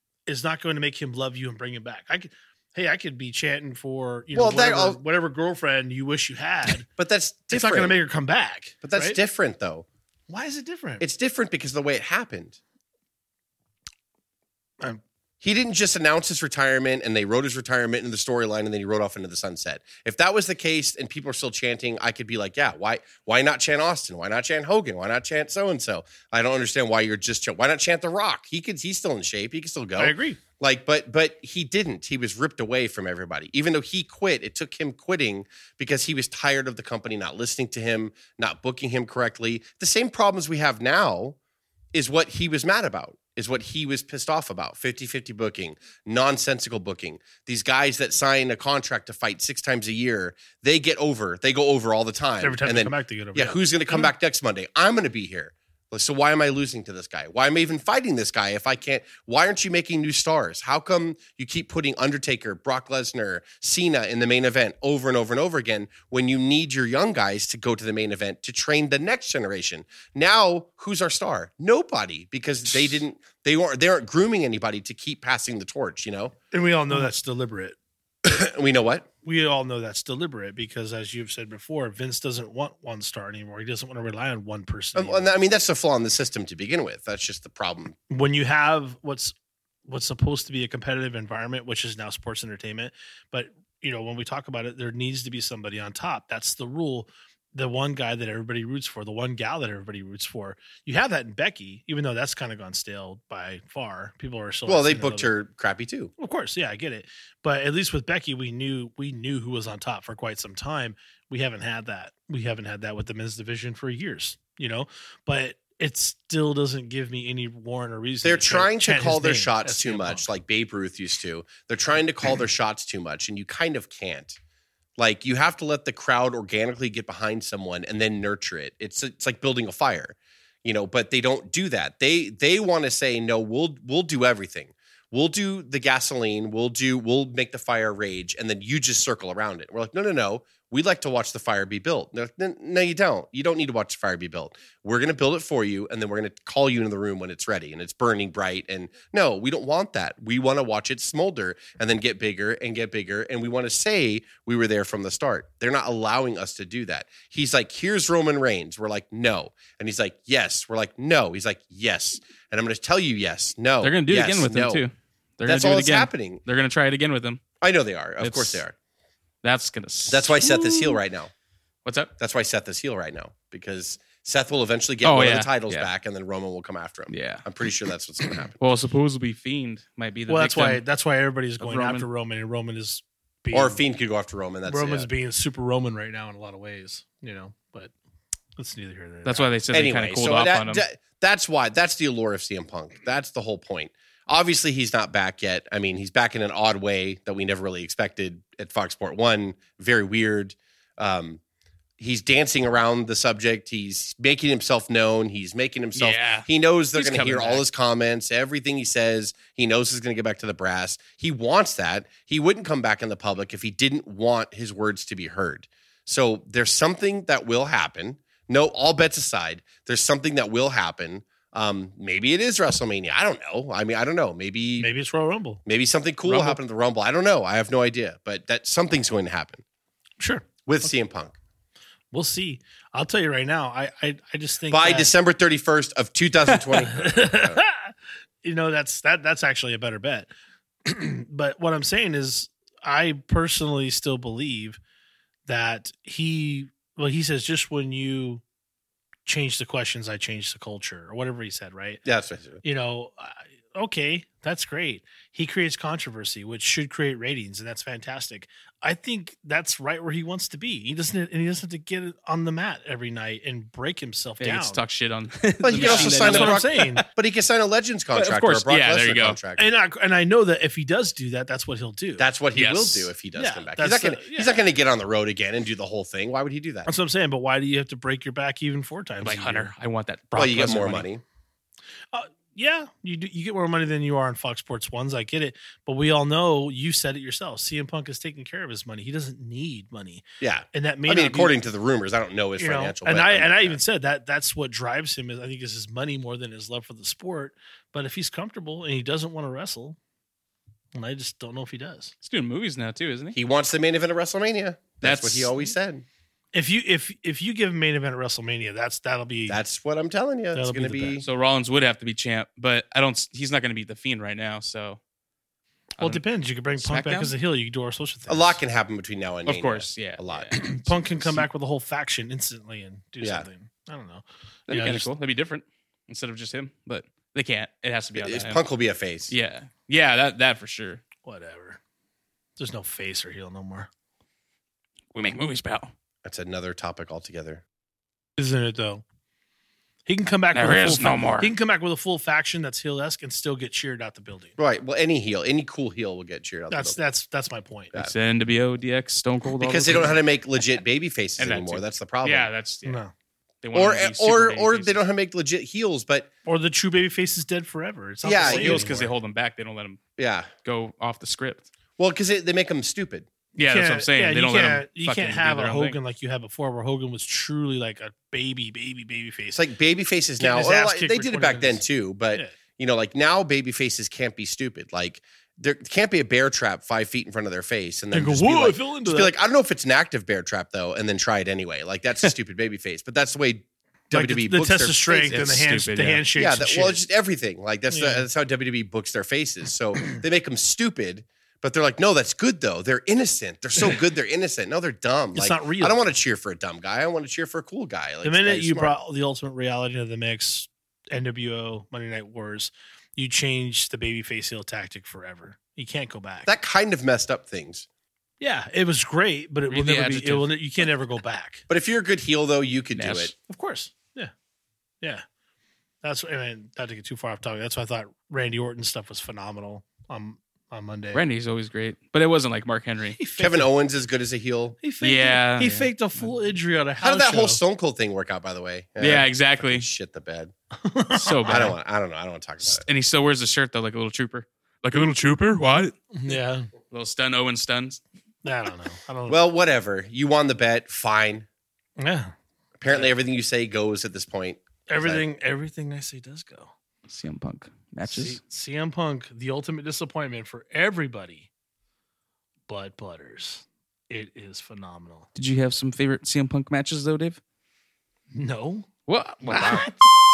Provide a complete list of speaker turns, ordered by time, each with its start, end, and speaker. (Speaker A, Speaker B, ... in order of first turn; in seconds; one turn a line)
Speaker A: 0.3-6.9
Speaker B: 4.3-5.0
Speaker B: 6.9-8.0
Speaker A: 7.5-9.2
Speaker B: 8.8-9.9
Speaker A: 10.3-11.1
Speaker B: 11.0-12.6
Speaker B: 15.4-41.4
Speaker A: 30.0-30.4
Speaker B: 41.9-76.3
Speaker A: 52.4-54.1
Speaker A: 76.5-77.8
Speaker B: 78.2-79.1
Speaker A: 79.2-85.4
Speaker B: 85.0-88.0
Speaker A: 88.1-89.3
Speaker A: 89.9-105.3
Speaker B: 104.7-106.1
Speaker A: 106.2-120.2
Speaker B: 118.2-124.4
Speaker B: 125.0-164.8
Speaker C: 163.8-167.4
Speaker B: 165.4-166.4
Speaker B: 167.6-168.8
Speaker C: 168.2-168.6
Speaker C: 169.4-171.0
Speaker B: 170.1-171.3
Speaker C: 171.8-172.1
Speaker B: 172.2-178.6
Speaker C: 175.0-175.9
Speaker C: 177.1-177.4
Speaker C: 178.6-180.8
Speaker A: 180.3-183.8
Speaker C: 181.6-182.1
Speaker B: 183.5-185.1
Speaker A: 184.7-187.9
Speaker A: 188.6-189.5
Speaker C: 189.2-190.8
Speaker B: 189.7-201.4
Speaker B: 202.0-224.9
Speaker C: 206.0-207.6
Speaker A: 224.8-225.6
Speaker B: 225.7-229.6
Speaker C: 226.2-226.6
Speaker A: 230.2-230.5
Speaker B: 230.7-231.3
Speaker A: 232.1-235.1
Speaker B: 234.7-237.6
Speaker A: 236.9-240.3
Speaker A: 240.8-244.8
Speaker A: 245.5-248.4
Speaker A: 249.3-252.0
Speaker B: 252.1-252.6
Speaker A: 252.6-264.8
Speaker C: 264.4-267.1
Speaker B: 265.6-269.6
Speaker A: 265.7-267.0
Speaker C: 268.1-269.4
Speaker A: 269.6-272.3
Speaker B: 272.2-276.9
Speaker C: 272.6-273.1
Speaker A: 273.3-274.6
Speaker A: 276.9-279.7
Speaker C: 279.2-281.1
Speaker B: 280.4-281.2
Speaker A: 282.1-291.5
Speaker B: 290.4-293.8
Speaker A: 292.6-300.0
Speaker A: 300.9-302.1
Speaker C: 302.2-303.4
Speaker B: 303.4-306.1
Speaker C: 305.0-305.5
Speaker A: 306.5-309.6
Speaker B: 309.5-311.3
Speaker A: 310.5-311.2
Speaker C: 311.2-315.0
Speaker A: 316.0-318.6
Speaker C: 316.8-317.3
Speaker B: 318.3-320.8
Speaker C: 319.5-320.6
Speaker A: 320.5-325.1
Speaker B: 323.2-323.5
Speaker C: 324.7-328.6
Speaker B: 328.2-329.3
Speaker C: 329.3-331.0
Speaker A: 331.2-331.8
Speaker A: 332.6-333.9
Speaker C: 335.1-335.9
Speaker B: 336.2-337.6
Speaker A: 338.4-339.0
Speaker A: 340.1-344.6
Speaker C: 340.5-341.5
Speaker B: 344.6-347.0
Speaker A: 346.7-347.9
Speaker C: 347.9-350.2
Speaker B: 349.6-352.5
Speaker C: 351.4-353.0
Speaker A: 352.8-353.1
Speaker C: 353.6-355.0
Speaker B: 353.7-356.3
Speaker A: 356.4-359.1
Speaker B: 358.2-358.9
Speaker C: 358.4-360.0
Speaker B: 360.2-360.5
Speaker C: 360.6-361.7
Speaker B: 362.0-363.3
Speaker C: 363.6-366.0
Speaker A: 363.6-369.6
Speaker B: 369.6-385.4
Speaker A: 370.4-372.5
Speaker A: 378.1-379.3
Speaker A: 384.1-387.0
Speaker C: 385.2-386.2
Speaker B: 386.4-398.9
Speaker A: 387.9-388.2
Speaker A: 395.3-396.0
Speaker A: 398.2-406.5
Speaker B: 406.5-407.9
Speaker A: 408.4-411.6
Speaker C: 409.7-410.5
Speaker B: 411.7-413.3
Speaker C: 412.9-413.3
Speaker A: 413.4-414.3
Speaker A: 416.0-421.2
Speaker C: 421.1-423.2
Speaker A: 423.1-423.7
Speaker B: 423.4-424.8
Speaker A: 424.8-427.6
Speaker C: 425.0-425.9
Speaker B: 427.0-430.5
Speaker C: 429.0-429.9
Speaker A: 430.8-431.6
Speaker C: 431.1-431.8
Speaker B: 431.4-432.9
Speaker C: 432.7-435.9
Speaker A: 436.1-436.7
Speaker C: 436.9-438.0
Speaker A: 438.4-439.4
Speaker B: 439.3-441.5
Speaker A: 442.0-442.3
Speaker B: 442.8-445.2
Speaker A: 444.9-446.7
Speaker C: 447.1-448.4
Speaker A: 448.1-451.5
Speaker A: 452.7-455.3
Speaker C: 455.4-457.4
Speaker A: 458.3-458.9
Speaker C: 459.1-459.9
Speaker A: 459.5-459.9
Speaker B: 459.5-459.8